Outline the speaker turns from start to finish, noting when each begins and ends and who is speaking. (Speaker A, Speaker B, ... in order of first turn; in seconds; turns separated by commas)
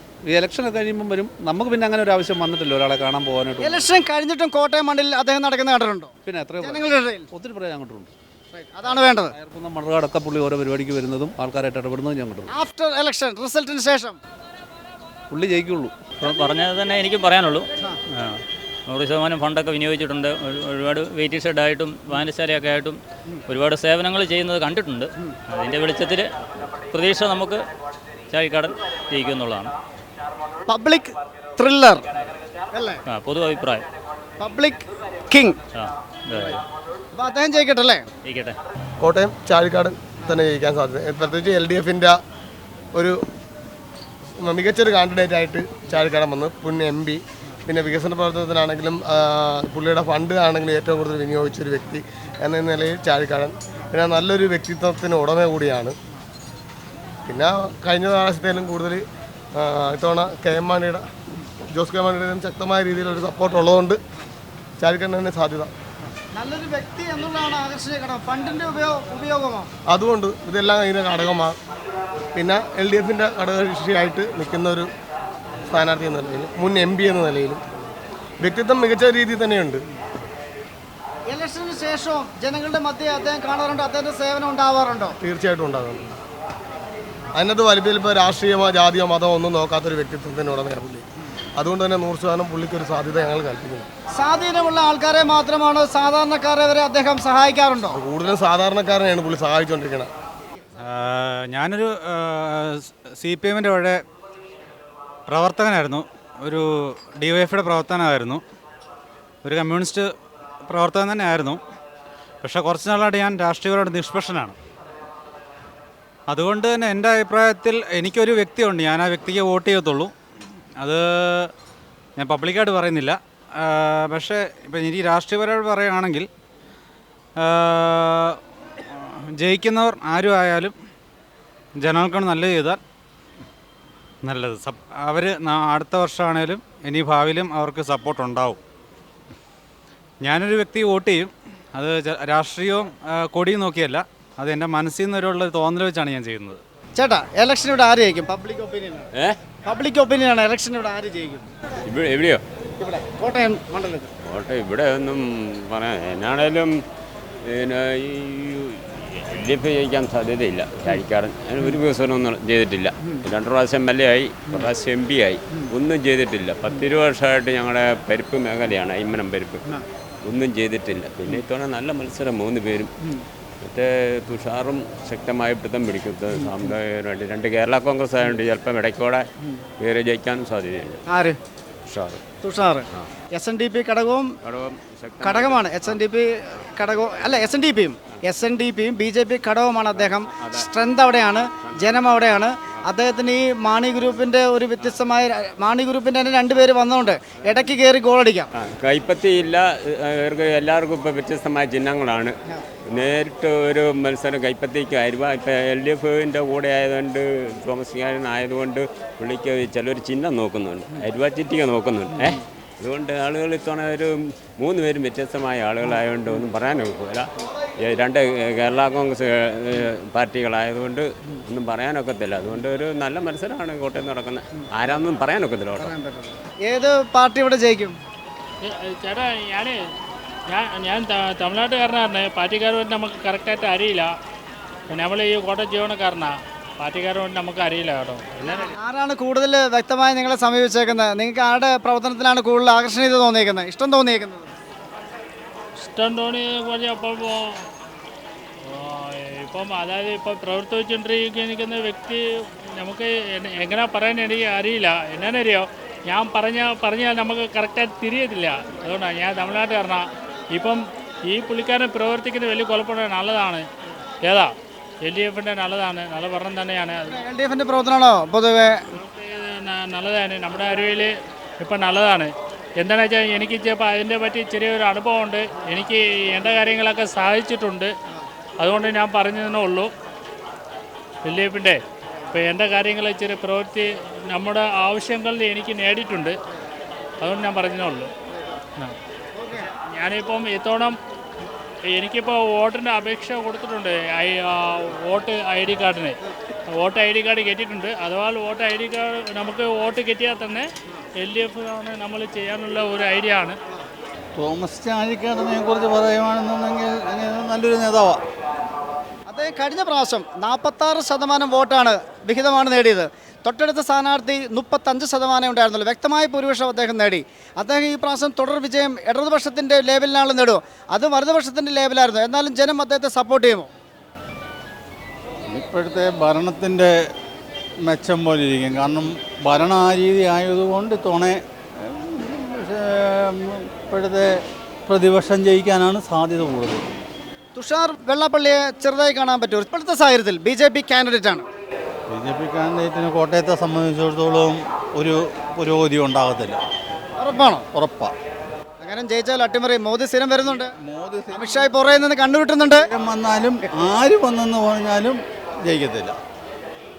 Speaker A: 0.2-3.7, Speaker B: 3.6-7.2, Speaker A: 6.2-8.1, Speaker B: 8.5-9.3, Speaker A: 9.4-12.5, Speaker B: 12.5-14.2, Speaker A: 15.3-15.9, Speaker C: 16.2-27.6, Speaker C: 28.3-29.7, Speaker B: 30.7-32.1, Speaker B: 32.7-33.0, Speaker C: 33.1-33.9, Speaker B: 34.4-35.6, Speaker C: 35.7-36.6, Speaker B: 37.1-38.1, Speaker C: 38.2-38.6, Speaker D: 39.0-42.1, Speaker D: 42.9-43.2, Speaker D: 44.4-56.0, Speaker D: 57.3-59.0, Speaker D: 59.5-61.1, Speaker D: 61.7-64.0, Speaker D: 64.8-65.7, Speaker B: 66.3-69.7, Speaker D: 69.9-71.5, Speaker D: 72.3-74.9, Speaker D: 75.7-77.6, Speaker D: 78.4-79.8, Speaker B: 81.3-85.2, Speaker D: 85.2-86.1, Speaker D: 87.3-91.0, Speaker D: 91.6-93.9, Speaker B: 94.1-98.0, Speaker D: 97.9-100.1, Speaker E: 100.8-104.0, Speaker E: 105.3-106.6, Speaker E: 107.2-108.4, Speaker E: 109.4-110.1, Speaker E: 110.7-111.6, Speaker E: 112.4-114.5, Speaker E: 116.3-120.1, Speaker E: 120.8-121.5, Speaker E: 122.2-126.3, Speaker E: 127.4-128.4, Speaker E: 128.9-130.7, Speaker E: 131.8-132.8, Speaker E: 134.2-138.6, Speaker E: 140.2-146.6, Speaker B: 146.9-149.1, Speaker B: 149.6-151.5, Speaker F: 151.8-152.4, Speaker B: 152.8-154.1, Speaker F: 154.2-156.8, Speaker F: 157.4-169.7, Speaker F: 170.2-172.9, Speaker F: 173.6-179.2, Speaker F: 179.8-181.0, Speaker B: 181.1-181.4, Speaker F: 181.9-182.2, Speaker B: 182.4-184.3, Speaker F: 184.4-186.0, Speaker B: 185.2-198.5, Speaker F: 190.4-190.7, Speaker F: 198.5-202.4, Speaker F: 202.9-225.9, Speaker B: 225.8-228.0, Speaker G: 228.6-229.8, Speaker G: 230.5-234.1, Speaker G: 234.9-238.7, Speaker B: 238.4-244.5, Speaker G: 245.8-247.6, Speaker G: 248.7-252.2, Speaker G: 252.8-263.6, Speaker G: 264.2-267.2, Speaker B: 267.1-268.8, Speaker G: 268.9-277.9, Speaker G: 278.6-279.9, Speaker G: 281.2-281.8, Speaker G: 282.3-286.3, Speaker G: 287.2-288.1, Speaker G: 289.9-291.0, Speaker G: 291.9-296.2, Speaker G: 296.7-300.7, Speaker G: 301.2-303.6, Speaker H: 304.4-308.2, Speaker B: 309.3-323.7, Speaker H: 325.5-326.9, Speaker H: 327.9-334.3, Speaker H: 334.9-336.9, Speaker B: 337.5-341.5, Speaker H: 342.1-346.6, Speaker B: 347.2-347.6, Speaker H: 347.7-348.1, Speaker B: 348.8-350.7, Speaker H: 350.4-351.8, Speaker B: 351.3-352.9, Speaker H: 352.7-356.2